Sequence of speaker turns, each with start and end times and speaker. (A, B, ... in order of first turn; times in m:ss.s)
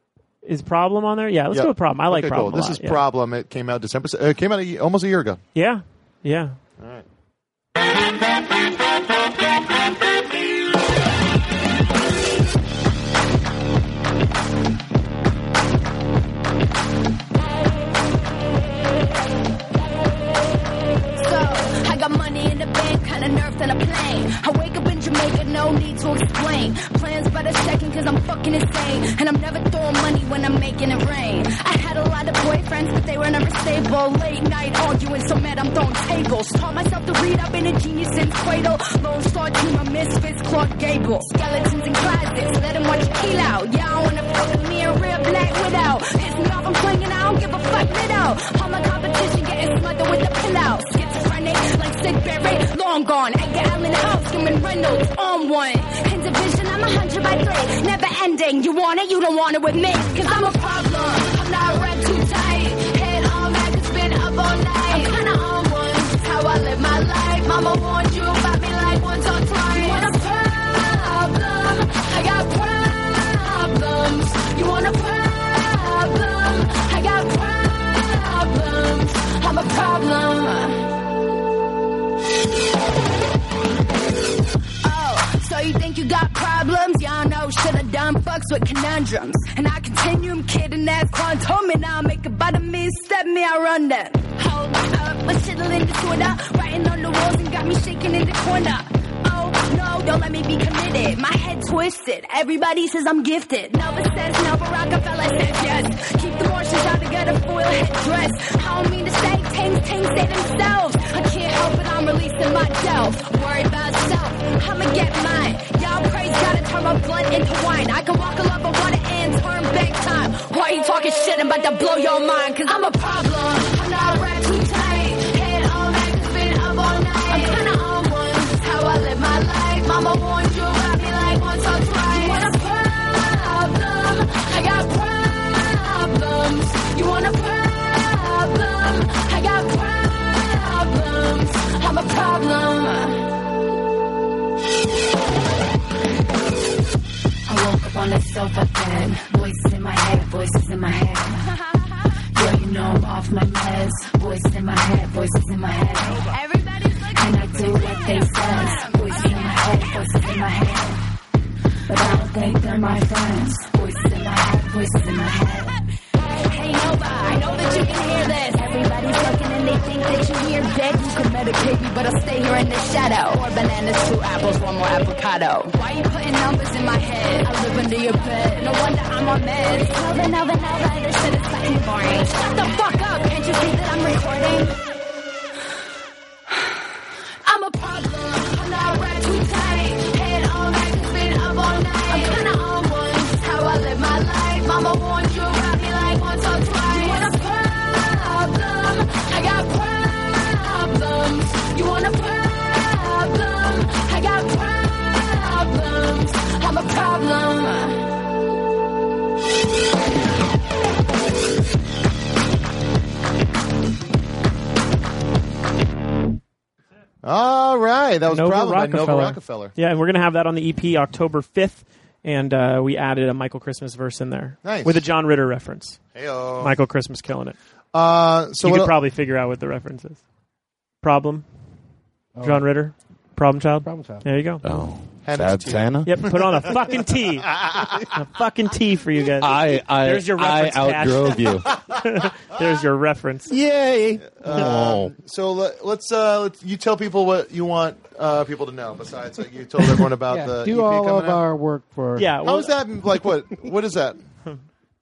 0:00.4-0:03.0 A
0:01.5-0:05.4 B
0:05.5-0:06.6 A
0:06.8-0:07.0 B
0:21.1-1:20.8 C
1:24.8-2:23.2 C
2:27.5-2:31.5 C
2:32.3-2:41.0 C
2:36.1-2:36.3 A
2:41.9-2:45.7 C
2:46.5-3:04.8 C
3:07.4-3:28.0 C
3:37.2-3:39.7 B
3:38.3-3:46.0 A
3:44.6-3:45.0 B
3:46.1-3:46.7 B
3:46.6-3:47.6 A
3:47.9-3:48.9 B
3:48.6-3:50.2 A
3:51.0-3:51.4 A
3:52.4-3:52.7 D
3:52.4-3:54.6 A
3:53.8-3:54.2 D
3:54.6-3:56.3 E
3:55.2-3:56.0 B
3:56.0-3:57.5 A
3:57.6-3:57.8 B
3:58.1-4:03.5 A
3:59.4-4:01.8 E
4:03.5-4:05.1 E
4:04.2-4:11.4 B
4:10.3-4:12.3 D
4:12.2-4:12.8 A
4:12.4-4:14.2 B